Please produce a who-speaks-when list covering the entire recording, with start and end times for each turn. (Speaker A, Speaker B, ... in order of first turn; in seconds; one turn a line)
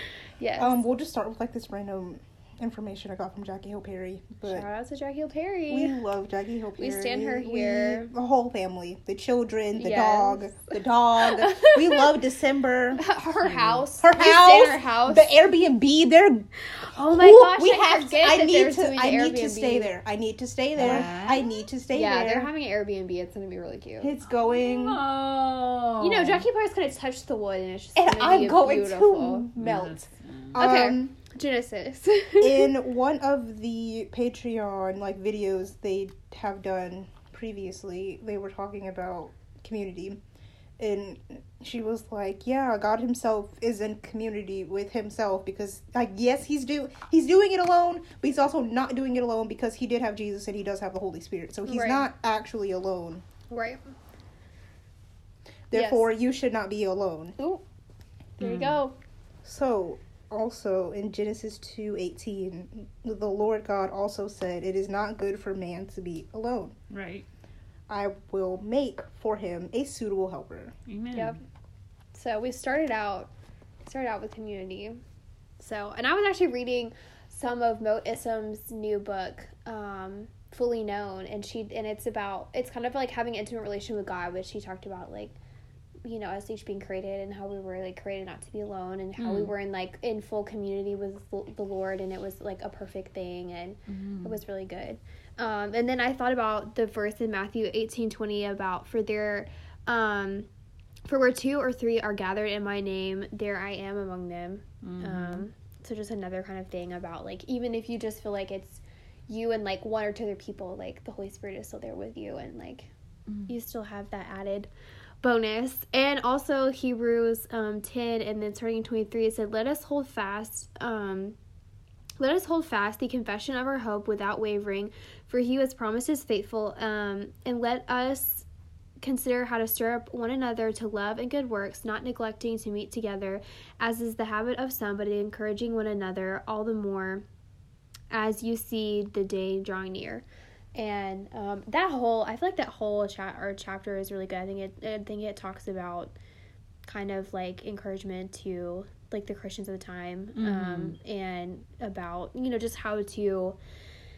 Speaker A: 0.4-0.8
Speaker B: 0.6-4.7
Speaker A: 4.4-6.0
Speaker B: 5.7-13.0
Speaker A: 6.8-8.1
Speaker A: 9.8-12.1
Speaker A: 12.9-15.3
Speaker C: 13.4-13.8
Speaker B: 14.0-16.5
Speaker A: 16.6-19.9
Speaker B: 17.1-22.5
Speaker C: 20.8-21.5
Speaker A: 20.8-21.1
Speaker A: 21.9-24.1
Speaker B: 24.0-25.0
Speaker C: 24.4-26.4
Speaker A: 26.0-29.5
Speaker B: 27.9-31.1
Speaker C: 29.6-30.6
Speaker A: 30.6-32.7
Speaker B: 32.4-40.2
Speaker B: 40.8-53.2
Speaker A: 51.6-52.1
Speaker A: 53.5-53.8
Speaker B: 55.7-57.4
Speaker A: 55.7-56.1
Speaker A: 58.4-59.0
Speaker C: 58.4-58.8
Speaker B: 59.4-66.7
Speaker C: 66.9-67.2
Speaker B: 67.9-70.7
Speaker C: 70.9-71.4
Speaker A: 71.1-71.4
Speaker A: 72.1-73.3
Speaker A: 73.8-75.0
Speaker A: 75.6-85.3
Speaker A: 86.0-100.5
Speaker C: 89.2-89.5
Speaker C: 93.9-94.4
Speaker A: 101.0-112.9
Speaker C: 104.8-105.4
Speaker A: 113.5-114.7
Speaker A: 115.2-121.4
Speaker A: 122.2-128.4
Speaker A: 129.0-137.2
Speaker A: 138.1-146.2
Speaker A: 146.8-153.6
Speaker C: 150.3-151.0